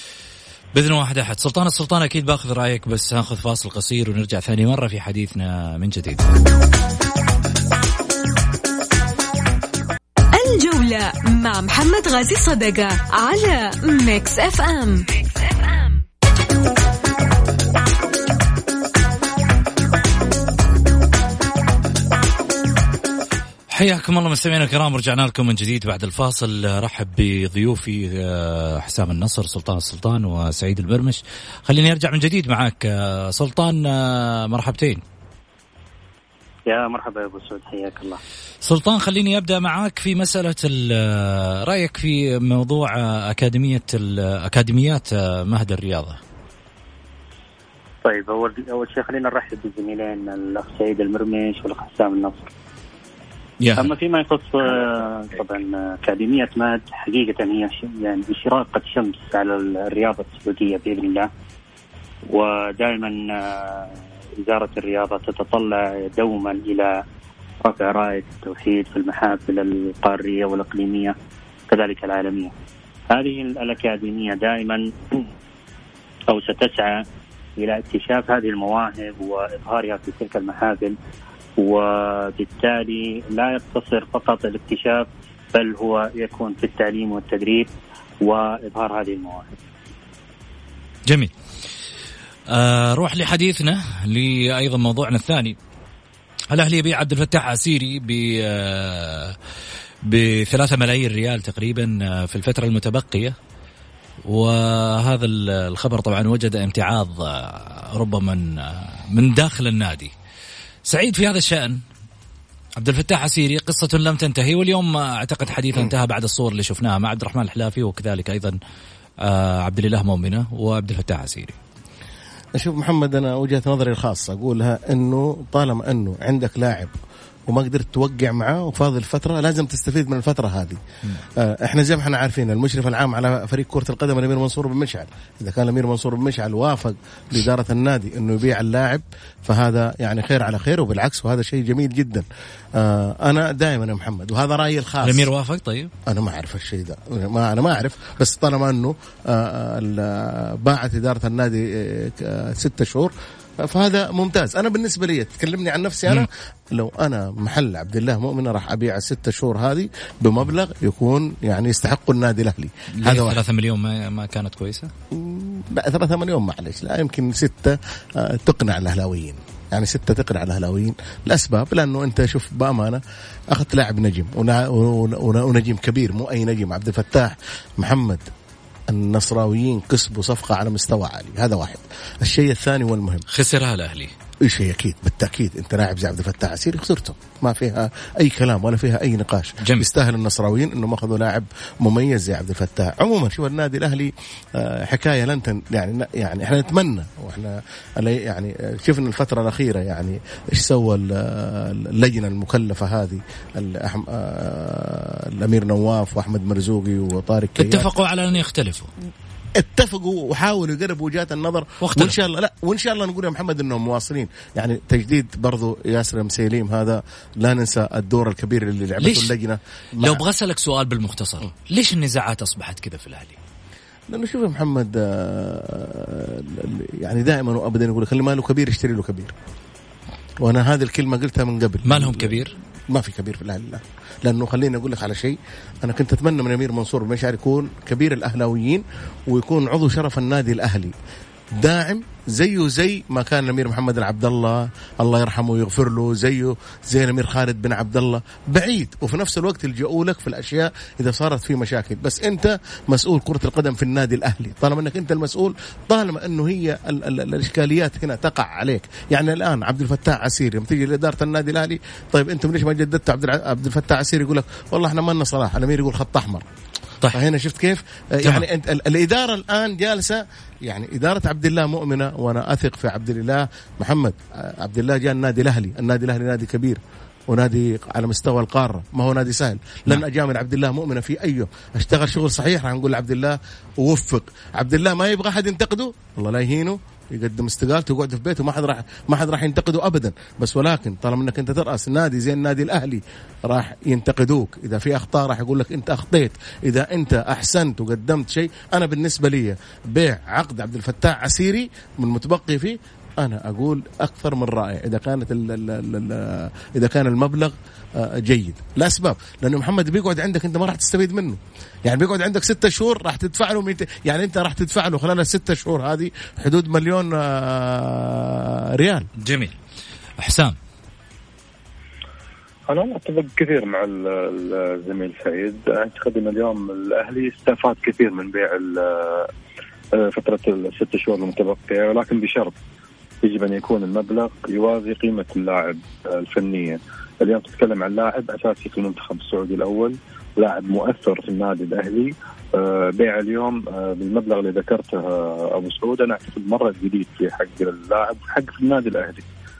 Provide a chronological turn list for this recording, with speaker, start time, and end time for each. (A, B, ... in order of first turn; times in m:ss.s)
0:00.7-0:06.2 A
0:10.3-0:16.0 B
0:23.7-0:35.0 A
0:36.7-0:38.2 C
0:38.6-0:46.2 A
0:48.0-0:52.5 C
0:53.6-0:53.9 A
0:53.8-1:01.3 C
1:02.3-1:07.0 C
1:07.6-1:11.1 C
1:11.7-1:12.5 C
1:13.1-1:15.3 C
1:16.3-1:17.0 C
1:17.6-1:21.0 C
1:21.6-1:27.7 C
1:28.2-1:29.5 C
1:32.5-1:35.6 A
1:36.5-1:39.4 A
1:40.1-1:43.3 A
1:44.3-1:50.1 A
1:50.9-1:51.8 A
1:52.8-1:58.6 A
1:59.2-2:01.6 A
2:02.6-2:06.9 D
2:07.5-2:10.8 D
2:11.4-2:22.2 D
2:22.8-2:25.3 D
2:25.0-2:25.9 A
2:26.1-2:33.1 D
2:33.6-2:43.4 D
2:43.0-2:44.9 A
2:45.1-2:58.3 D
2:58.9-3:03.2 D
3:03.3-3:04.1 A
3:04.4-3:27.9 D
3:27.6-3:28.9 A
3:29.6-3:40.2 D
3:31.8-3:32.2 A
3:39.0-3:39.3 A
3:40.0-3:43.4 A
3:44.1-3:49.3 D
3:50.4-4:00.9 D
3:51.8-3:52.5 A
4:01.6-4:26.4 D
4:27.1-5:19.1 D
5:19.2-5:19.5 A
5:20.2-5:20.6 A
5:22.7-5:29.3 E
5:30.0-5:32.5 E
5:33.2-5:49.2 E